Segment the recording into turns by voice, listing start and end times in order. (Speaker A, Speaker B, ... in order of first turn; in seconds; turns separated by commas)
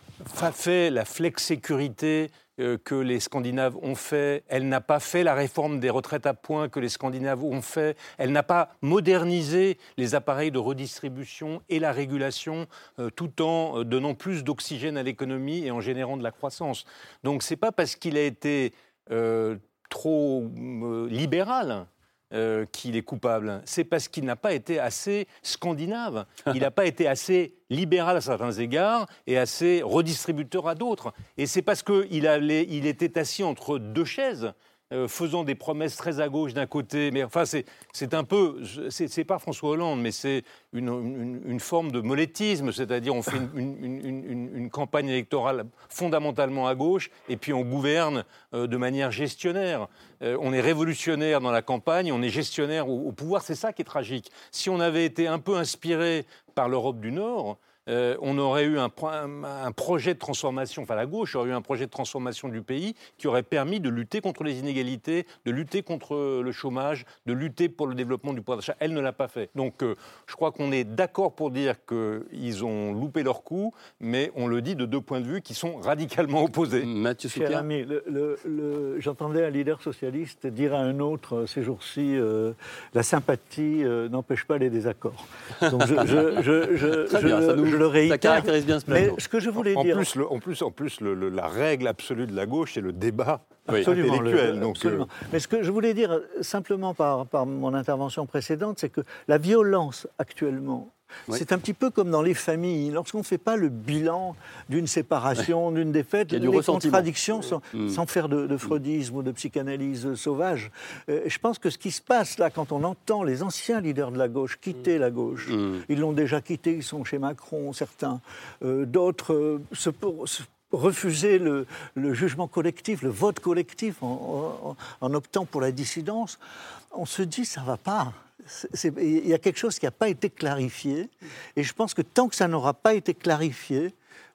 Speaker A: 0.2-76.9, Speaker B: 76.8-77.7, Speaker C: 77.3-90.1, Speaker B: 85.7-86.4, Speaker B: 87.0-89.2, Speaker A: 89.6-95.1, Speaker C: 93.7-126.4, Speaker B: 106.3-107.1, Speaker B: 107.7-108.0, Speaker B: 115.5-115.8, Speaker C: 126.9-133.9